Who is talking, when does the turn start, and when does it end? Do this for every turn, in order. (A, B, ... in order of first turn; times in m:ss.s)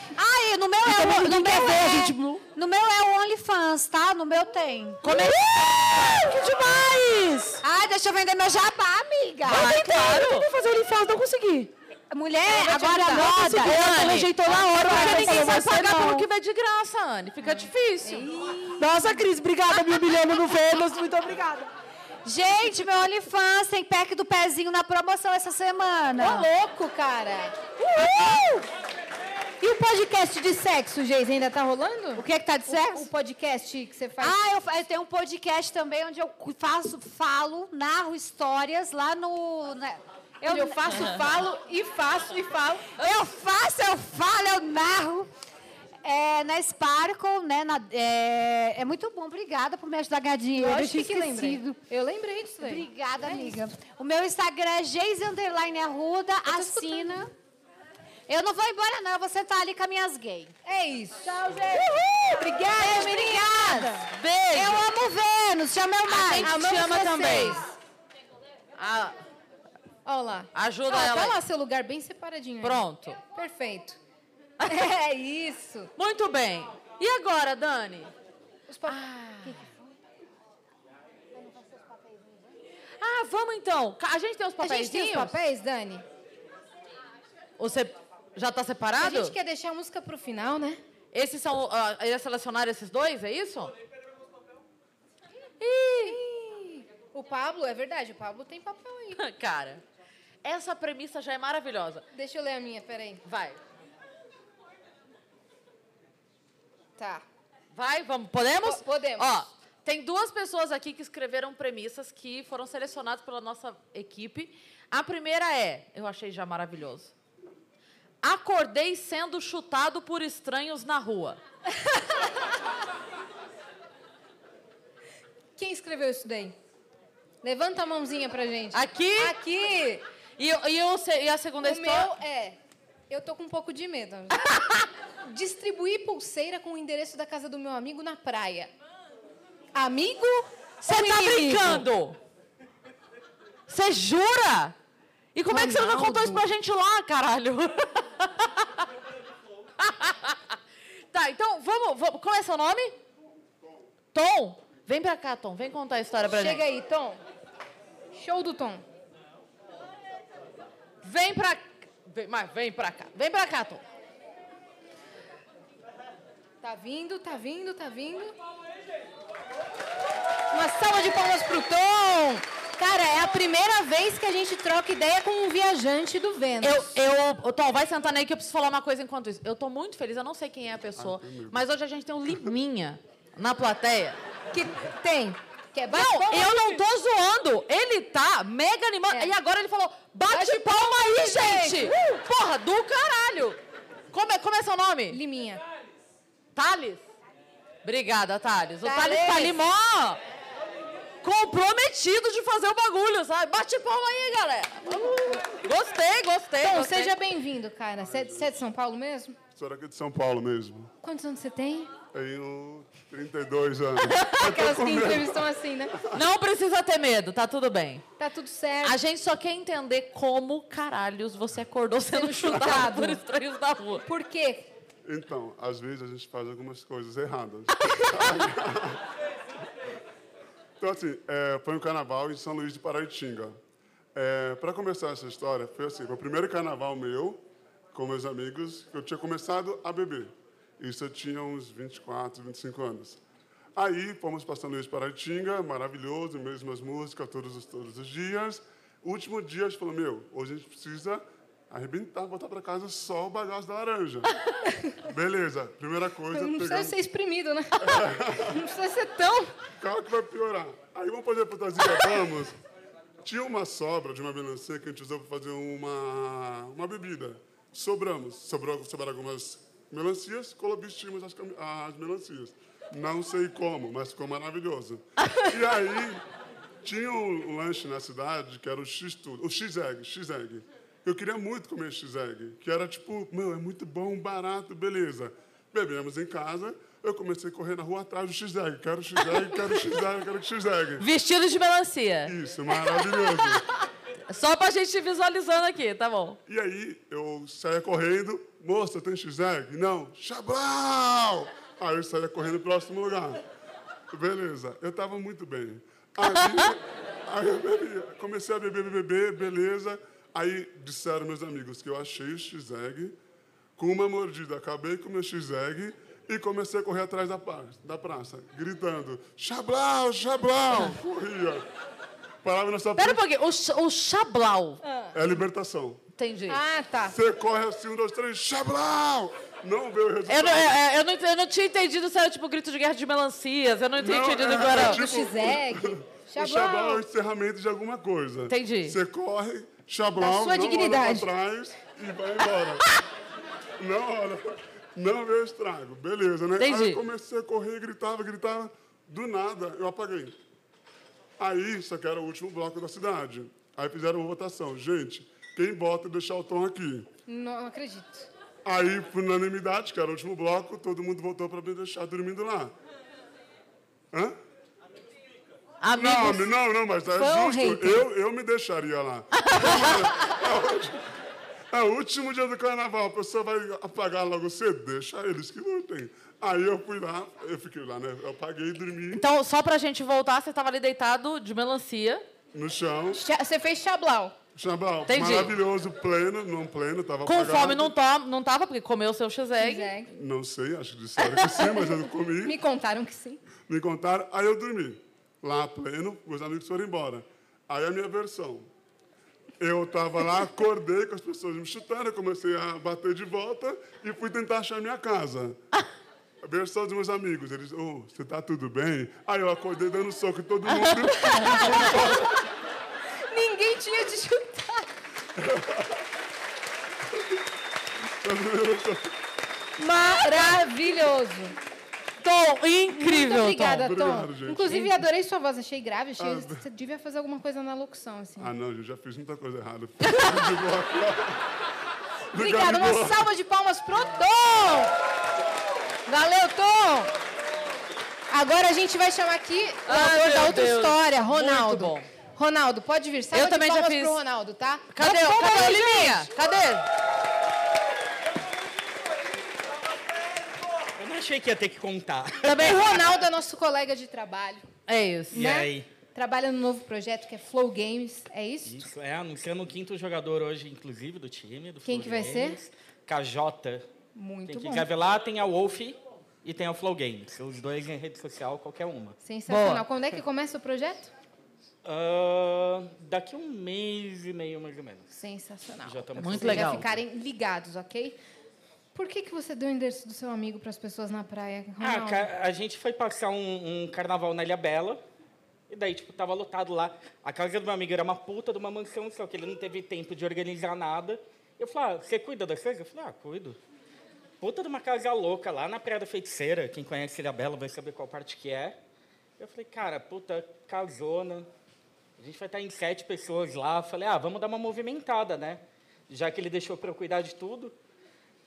0:00.2-0:05.3 A
0:00.8-0:02.4 B
0:05.0-0:07.6 B
0:05.1-0:05.3 C
0:07.6-0:09.7 A
0:09.4-0:10.5 C
0:09.5-0:11.7 B
0:12.1-0:13.9 A
0:12.6-0:16.3 B
0:13.1-0:18.3 C
0:14.8-0:15.6 A
0:17.4-0:19.2 D
0:18.8-0:21.7 B
0:22.2-0:26.5 A
0:26.2-0:27.6 D
0:27.9-0:28.5 B
0:29.6-0:34.4 D
0:32.2-0:33.1 A
0:34.2-0:41.1 A
0:40.5-0:42.9 D
0:43.0-0:45.3 A
0:46.0-0:51.8 A
0:50.6-0:53.5 D
0:52.6-0:57.3 A
0:56.5-0:57.1 D
0:58.3-1:00.5 A
1:00.6-1:01.7 D
1:02.4-1:03.9 D
1:02.4-1:06.6 A
1:04.1-1:04.9 C
1:06.1-1:07.6 C
1:06.4-1:07.7 D
1:08.8-1:09.2 C
1:10.1-1:14.0 D
1:10.5-1:11.4 C
1:12.6-1:13.2 C
1:14.6-1:15.9 D
1:16.0-1:18.1 C
1:18.7-1:19.7 D
1:18.9-1:19.5 C
1:23.0-1:25.4 C
1:24.6-1:26.0 D
1:27.6-1:29.3 C
1:29.0-1:30.8 D
1:31.1-1:33.7 C
1:35.6-1:36.2 C
1:35.6-1:39.2 D
1:39.2-1:39.8 C
1:40.4-1:42.0 C
1:42.1-1:43.2 D
1:43.2-1:43.6 C
1:47.0-1:47.2 D
1:47.7-1:57.1 C
1:48.6-1:49.4 D
1:58.2-2:01.4 C
2:05.6-2:06.6 D
2:07.4-2:10.0 D
2:08.7-2:09.3 C
2:10.4-2:12.1 C
2:11.6-2:12.6 D
2:13.1-2:14.7 D
2:15.2-2:18.7 D
2:19.8-2:21.8 D
2:20.8-2:22.2 C
2:23.7-2:24.8 C
2:25.4-2:28.7 C
2:25.5-2:26.4 D
2:29.8-2:30.6 C
2:31.1-2:33.0 C
2:34.1-2:36.6 C
2:36.3-2:37.2 D
2:38.1-2:38.8 D
2:41.0-2:43.8 C
2:46.6-2:48.3 D
2:50.5-2:56.9 D
2:56.6-3:04.2 C
3:01.0-3:01.6 E
3:04.5-3:06.8 D
3:05.9-3:13.6 C
3:10.3-3:12.0 D
3:14.1-3:15.2 C
3:15.1-3:15.6 D
3:16.6-3:17.0 C
3:17.8-3:20.2 C
3:18.8-3:19.6 D
3:21.2-3:27.1 C
3:26.6-3:29.4 D
3:28.0-3:28.5 E
3:29.5-3:30.9 E
3:31.0-3:31.9 D
3:32.1-3:35.5 E
3:34.1-3:34.4 C
3:34.4-3:35.9 D
3:36.1-3:38.0 C
3:38.2-3:39.0 D
3:38.8-3:44.0 C
3:42.1-3:43.2 D
3:44.0-3:44.7 D
3:45.0-3:49.0 E
3:50.8-3:53.6 E
3:54.2-3:57.4 E
3:57.9-4:03.2 E
4:03.8-4:14.3 E
4:15.1-4:17.0 E
4:16.3-4:19.5 D
4:17.8-4:18.5 E
4:19.8-4:22.6 E
4:23.2-4:36.2 E
4:36.8-4:51.0 E
4:49.3-4:49.8 C
4:51.0-4:52.4 C
4:52.3-4:53.6 E
4:54.3-4:56.4 C
4:56.5-5:03.4 E
5:04.1-5:13.2 E
5:13.8-5:21.6 E
5:22.4-5:23.2 E
5:23.0-5:24.8 C
5:24.8-5:25.2 D
5:25.1-5:26.0 E
5:26.2-5:26.6 C
5:26.5-5:27.2 D
5:27.1-5:30.7 E
5:30.3-5:35.0 C
5:34.0-5:42.9 E
5:34.7-5:37.0 D
5:38.5-5:39.0 C
5:40.2-5:41.3 D
5:43.8-5:50.4 E
5:46.6-5:47.0 C
5:51.4-5:57.1 E
5:57.3-5:58.3 D
5:58.6-6:02.7 E
6:04.1-6:04.4 E
6:05.8-6:06.5 C
6:05.9-6:11.0 E
6:07.2-6:08.0 D
6:09.4-6:10.1 C
6:11.7-6:19.2 E
6:19.1-6:22.2 C
6:22.5-6:23.2 E
6:23.1-6:24.4 D
6:24.6-6:27.9 E
6:25.1-6:25.6 C
6:27.3-6:29.9 C
6:29.6-6:30.1 D
6:30.1-6:32.6 E
6:32.4-6:33.4 D
6:33.6-6:38.7 E
6:39.6-6:45.6 E
6:46.4-6:52.3 E
6:51.0-6:51.8 C
6:51.4-6:52.3 D
6:53.3-6:54.9 D
6:55.4-6:56.0 E
6:58.2-6:59.1 E
6:59.8-7:01.6 D
7:02.2-7:03.9 C
7:02.9-7:08.5 D
7:03.6-7:04.8 E
7:06.2-7:06.6 E
7:08.4-7:11.4 E
7:12.3-7:13.2 E
7:12.4-7:14.9 D
7:16.1-7:17.1 D
7:18.3-7:26.3 D
7:19.9-7:22.1 C
7:23.3-7:24.2 C
7:24.9-7:26.9 C
7:31.0-7:32.8 F
7:32.4-7:32.8 C
7:32.5-7:34.6 D
7:34.9-7:35.4 C
7:35.3-7:35.9 F
7:35.3-7:38.9 D
7:38.6-7:43.9 F
7:41.8-7:42.6 D
7:44.2-7:44.9 D
7:44.5-7:49.2 F
7:49.2-7:51.1 D
7:49.5-7:49.9 C
7:51.8-7:55.1 F
7:55.1-7:58.2 D
7:55.8-7:57.0 F
7:56.2-7:56.9 C
7:58.9-8:02.3 D
8:01.8-8:05.0 F
8:05.7-8:13.6 F
8:14.4-8:18.8 F
8:19.4-8:21.5 F
8:22.2-8:27.7 F